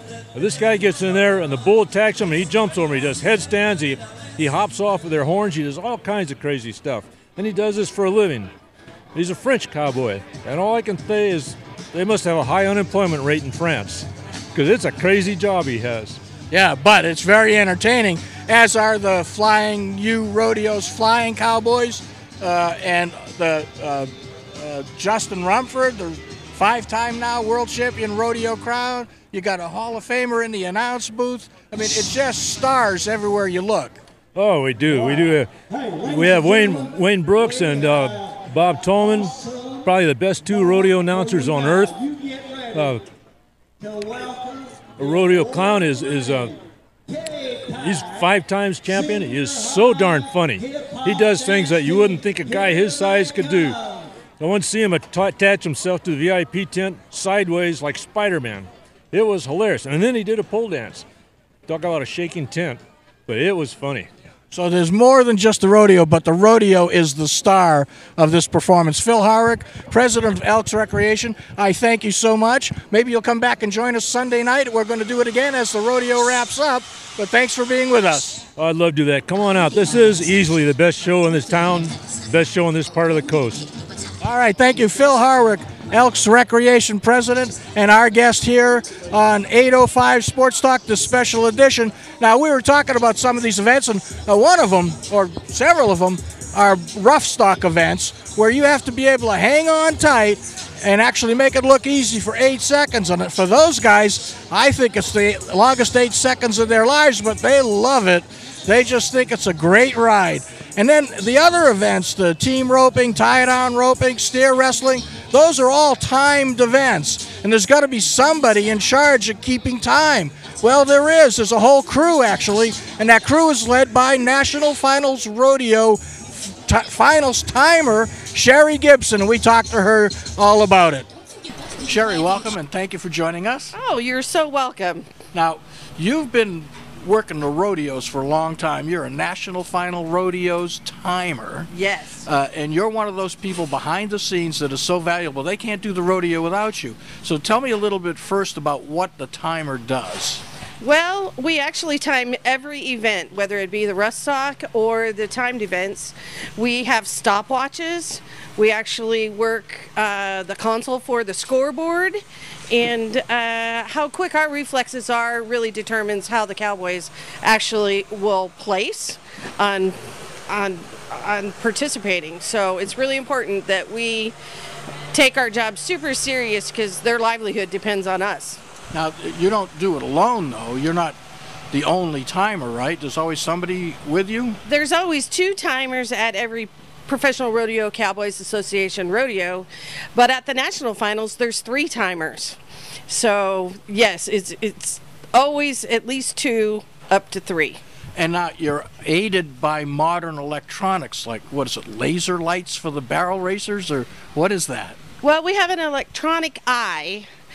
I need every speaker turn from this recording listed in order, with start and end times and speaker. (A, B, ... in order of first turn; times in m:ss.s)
0:00.3-0:08.5 A
0:09.1-0:16.2 A
0:16.5-0:34.0 B
0:34.3-0:35.5 A
0:36.0-0:42.0 A
0:42.7-0:43.0 A
0:45.0-0:46.5 A
0:47.7-0:53.8 A
0:54.4-1:01.0 A
1:01.7-1:04.1 A
1:04.5-1:18.4 B
1:18.6-1:23.7 A
1:24.2-2:11.1 B
2:11.8-2:13.7 B
2:13.7-2:15.1 C
2:15.3-2:21.7 B
2:21.7-2:22.2 C
2:22.2-2:30.4 B
2:30.8-2:50.0 C
2:50.5-2:54.3 C
2:55.1-2:58.6 C
2:58.9-3:01.2 B
3:01.7-3:04.6 B
3:04.6-3:12.6 C
3:13.1-3:17.8 C
3:18.2-3:25.0 B
3:25.2-3:27.3 C